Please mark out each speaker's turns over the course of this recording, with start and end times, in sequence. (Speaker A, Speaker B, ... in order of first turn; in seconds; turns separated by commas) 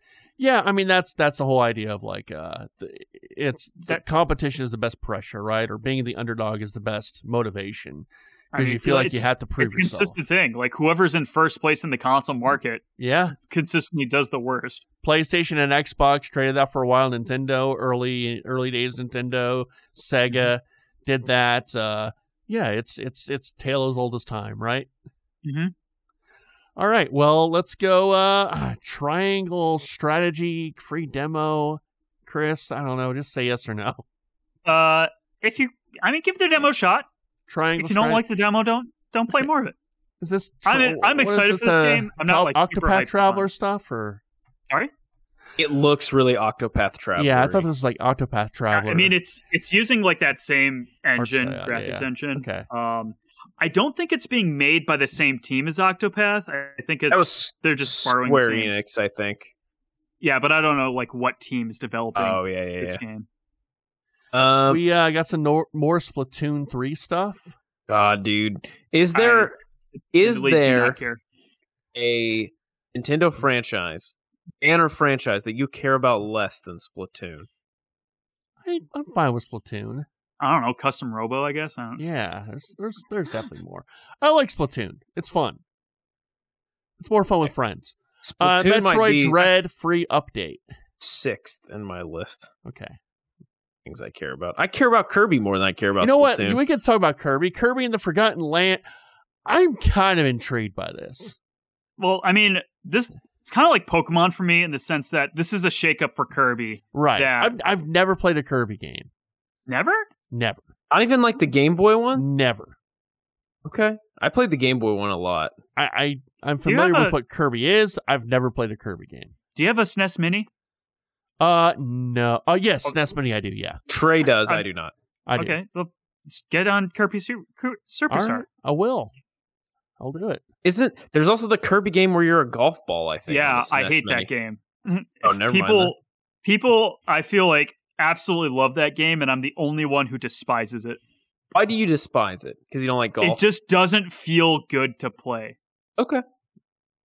Speaker A: 0.4-10.2, Speaker B: 8.5-12.8, Speaker A: 13.0-13.4, Speaker B: 13.4-14.8, Speaker A: 15.0-24.9, Speaker B: 25.4-25.7, Speaker A: 26.8-34.0, Speaker B: 34.7-37.1, Speaker A: 37.5-38.2, Speaker B: 37.8-39.8, Speaker A: 40.2-44.2, Speaker B: 40.7-43.5, Speaker C: 45.6-47.7, Speaker A: 47.2-49.1, Speaker B: 48.7-58.7, Speaker A: 51.2-52.7, Speaker C: 57.1-59.5, Speaker B: 60.2-63.3, Speaker C: 62.1-63.0, Speaker C: 64.3-64.8, Speaker A: 64.7-67.5, Speaker C: 67.9-69.5, Speaker B: 69.1-69.5, Speaker C: 70.1-71.0, Speaker B: 70.2-71.2, Speaker C: 72.0-77.5, Speaker A: 78.6-80.1, Speaker B: 80.4-82.1, Speaker A: 82.0-85.6, Speaker A: 87.0-90.6, Speaker C: 88.2-89.4, Speaker C: 91.0-92.5, Speaker A: 92.7-93.0, Speaker C: 93.8-96.6, Speaker A: 96.0-98.8, Speaker A: 99.5-101.4, Speaker B: 102.0-107.5, Speaker A: 106.9-109.1, Speaker B: 109.7-110.1, Speaker A: 110.3-110.6, Speaker C: 110.9-112.2, Speaker A: 112.2-112.8, Speaker C: 113.7-115.5, Speaker A: 115.8-119.3, Speaker B: 116.7-117.2, Speaker B: 119.6-120.5, Speaker A: 121.4-123.8, Speaker C: 123.9-124.9, Speaker B: 124.3-124.6, Speaker A: 125.3-125.6, Speaker B: 125.4-128.5, Speaker A: 128.1-129.1, Speaker A: 130.0-130.4, Speaker C: 130.6-134.3, Speaker B: 133.3-141.0, Speaker C: 135.2-135.9, Speaker C: 141.5-143.4, Speaker B: 143.2-145.6, Speaker C: 146.0-146.2